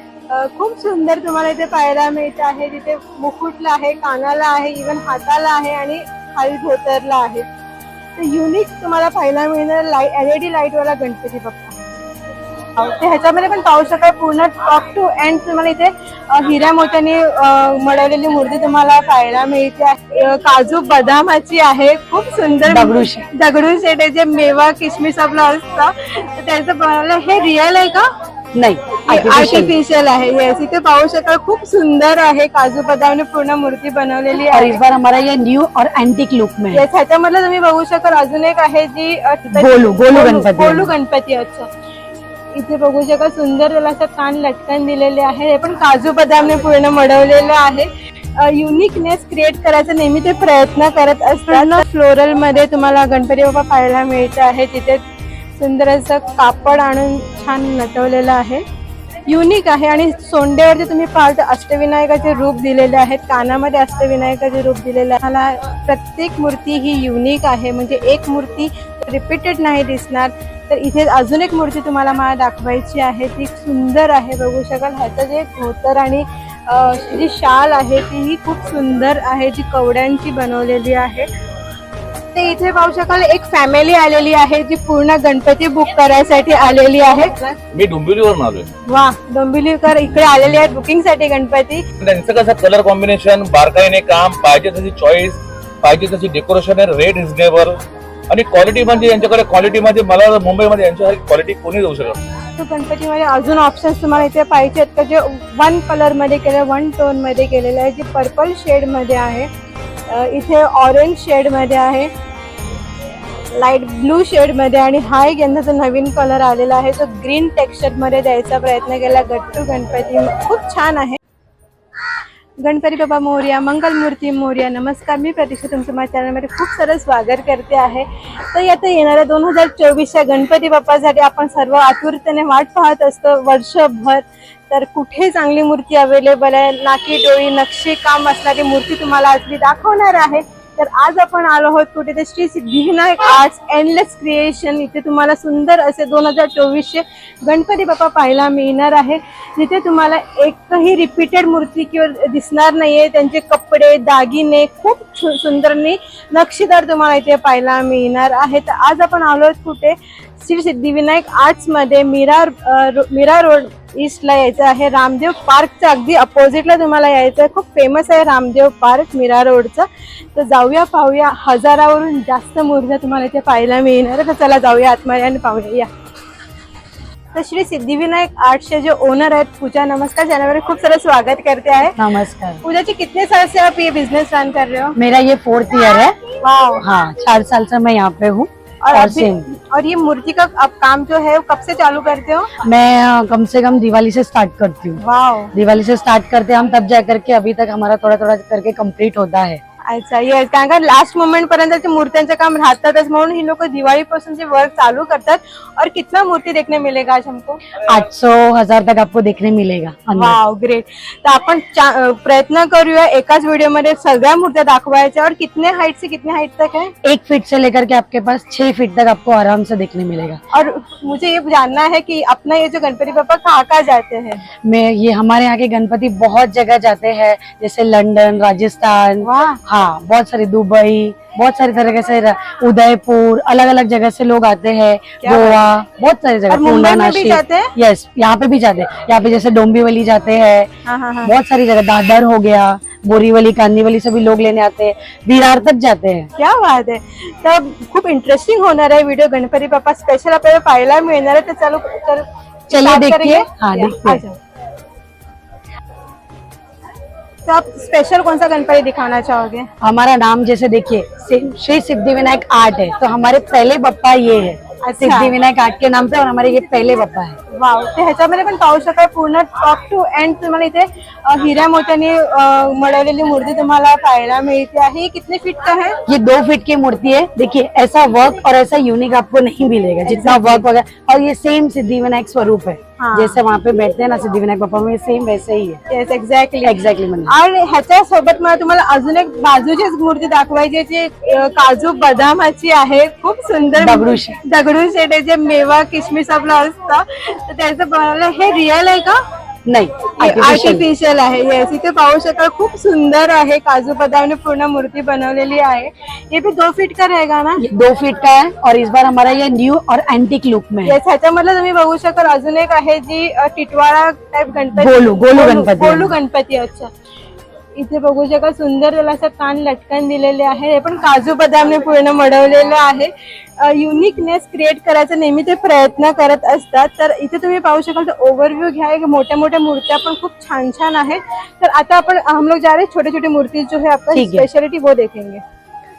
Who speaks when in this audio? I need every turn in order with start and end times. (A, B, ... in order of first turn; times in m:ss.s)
0:00.3-0:07.5 A
0:08.2-0:11.8 A
0:12.8-0:28.1 A
0:22.7-0:23.3 B
0:28.6-0:29.7 B
0:29.1-0:34.8 A
0:34.5-0:36.8 B
0:36.7-0:41.7 A
0:39.6-0:40.9 B
0:42.5-0:55.0 A
0:55.6-0:58.6 A
0:59.3-1:21.3 A
1:22.3-1:27.6 A
1:27.7-1:28.7 C
1:28.9-1:31.8 A
1:32.0-1:37.8 C
1:38.3-1:42.2 C
1:42.6-1:49.5 A
1:50.1-1:52.1 A
1:53.5-2:01.2 A
2:02.6-2:55.9 A
2:57.3-3:02.0 A
3:02.0-3:02.6 B
3:02.6-3:05.0 A
3:05.0-3:06.2 B
3:06.4-3:06.8 A
3:06.8-3:09.4 B
3:08.8-3:12.5 A
3:12.6-3:15.0 B
3:15.0-3:15.5 A
3:15.5-3:19.6 B
3:19.9-3:27.6 A
3:27.8-3:30.4 B
3:30.1-3:36.9 A
3:37.0-3:40.4 B
3:40.5-3:44.4 A
3:44.6-4:00.7 B
3:49.2-3:49.6 A
3:55.2-3:55.7 A
3:56.5-3:57.7 A
4:00.9-4:01.3 A
4:01.2-4:06.3 B
4:06.4-4:14.4 A
4:12.7-4:14.2 B
4:17.5-4:19.7 A
4:19.8-4:27.4 B
4:24.8-4:25.4 A
4:27.5-4:36.0 A
4:36.1-4:45.8 B
4:40.1-4:40.7 A
4:43.0-4:43.4 A
4:45.9-4:59.2 A
4:46.6-4:47.3 B
4:53.8-4:54.4 B
4:59.7-5:00.9 B
5:00.2-5:07.6 A
5:07.6-5:11.0 B
5:10.8-5:16.9 A
5:14.8-5:16.1 B
5:17.8-5:35.4 A
5:34.1-5:34.5 B